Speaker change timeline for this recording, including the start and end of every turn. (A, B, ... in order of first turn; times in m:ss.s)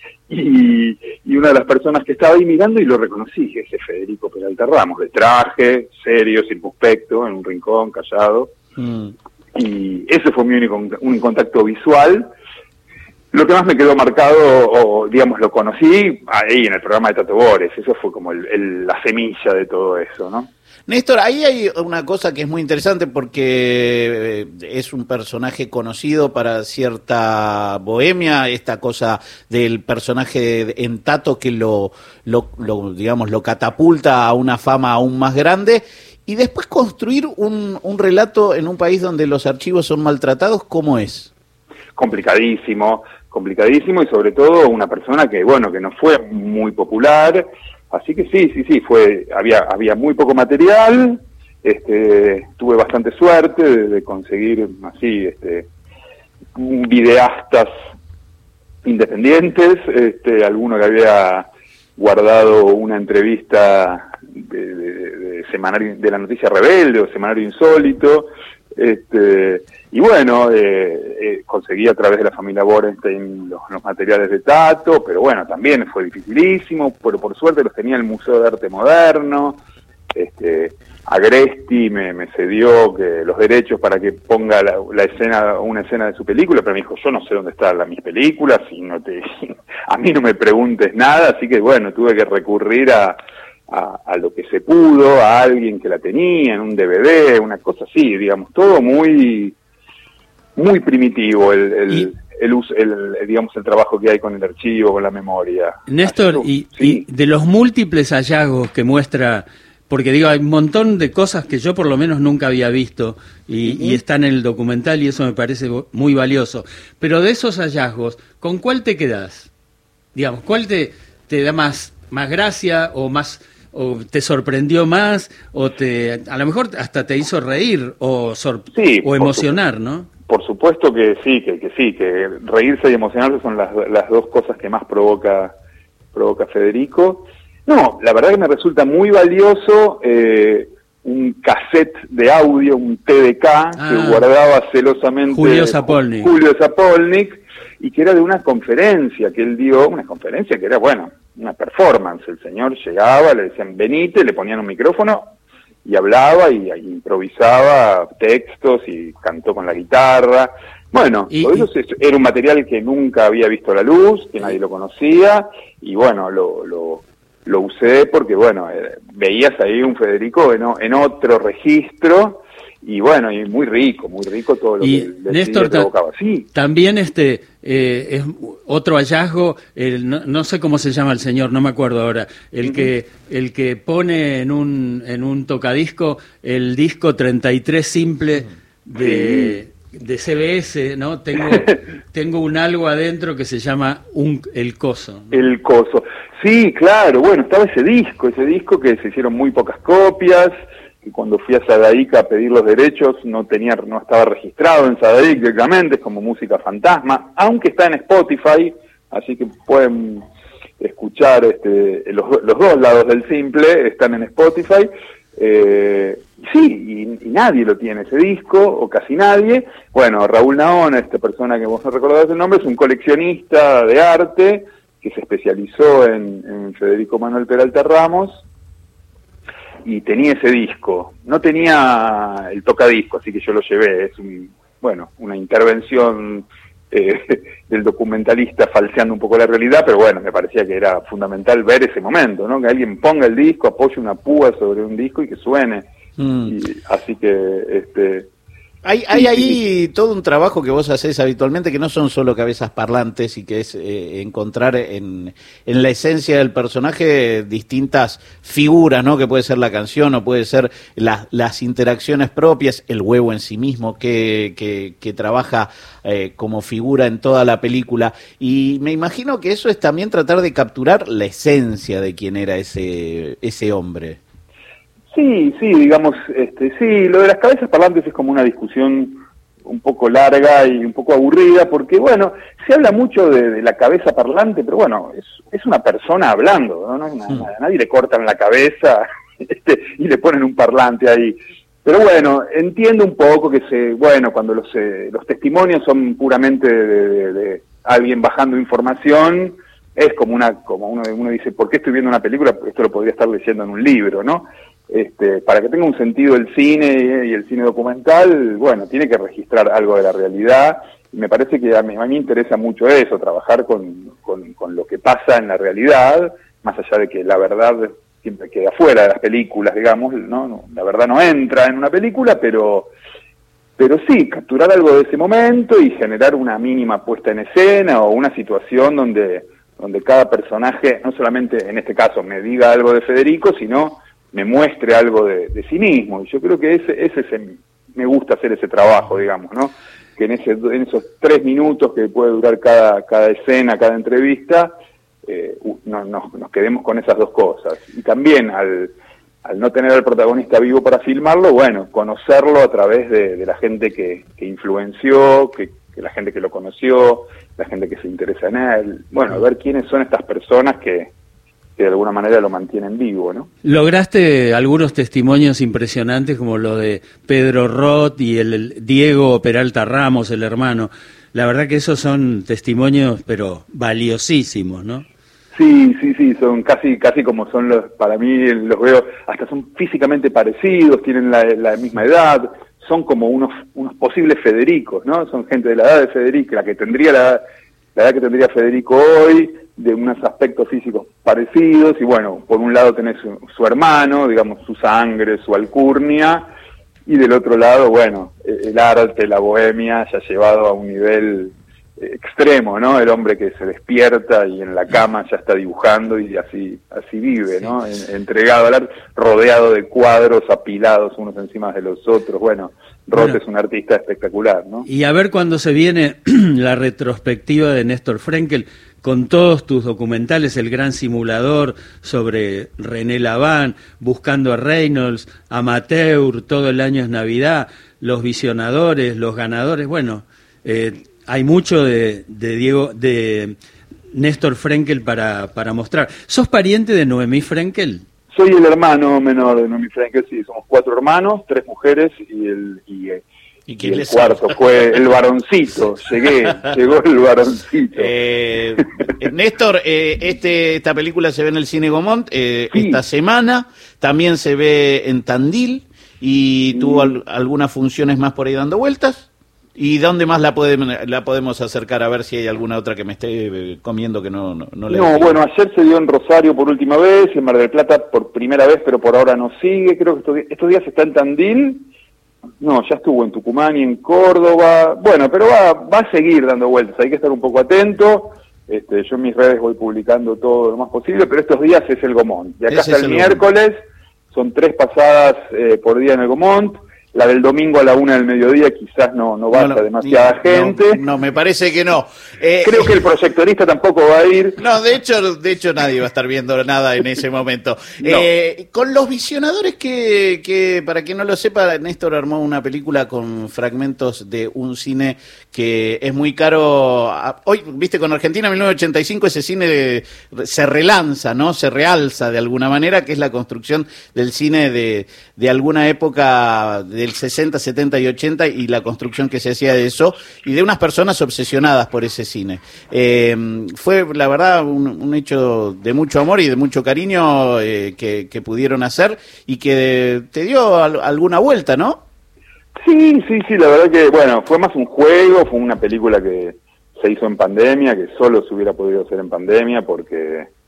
0:00.3-0:08.5 A
0:09.5-0:12.3 A
0:13.3-0:20.5 A
0:20.9-0:41.3 B
0:42.0-0:55.7 A
0:56.5-0:57.7 A
0:58.8-1:19.6 A
1:20.1-1:39.6 A
1:40.6-1:47.0 A
1:45.9-1:59.5 C
1:53.6-1:54.0 A
2:00.1-2:10.1 C
2:08.7-2:09.6 A
2:10.3-2:15.5 A
2:16.1-2:35.3 A
2:23.8-2:24.2 C
2:25.3-2:26.3 C
2:35.8-2:56.5 A
2:41.3-2:41.6 C
2:54.8-2:55.9 C
2:56.5-3:15.5 C
3:09.0-3:09.6 A
3:15.3-3:30.2 A
3:30.8-3:48.4 A
3:49.8-4:05.9 A
4:06.2-4:06.5 B
4:06.4-4:08.3 A
4:08.8-4:34.2 B
4:09.1-4:09.6 A
4:35.1-5:22.9 A
5:23.8-5:44.7 A
5:45.2-6:01.1 A
6:01.8-6:03.5 A
6:03.6-6:15.0 C
6:15.5-6:27.4 A
6:28.0-6:36.5 A
6:37.0-6:54.8 A
6:54.8-7:13.6 C
7:14.1-7:18.0 C
7:18.3-7:23.2 A
7:23.7-7:24.6 B
7:23.8-7:28.1 A
7:27.9-7:45.4 B
7:28.8-7:29.1 A
7:32.7-7:33.0 A
7:36.7-7:37.2 A
7:44.9-7:51.9 A
7:52.6-8:11.0 A
8:02.7-8:03.4 B
8:09.5-8:12.9 B
8:12.6-8:14.6 A
8:14.6-8:52.0 B
8:18.0-8:18.3 A
8:52.8-9:00.5 A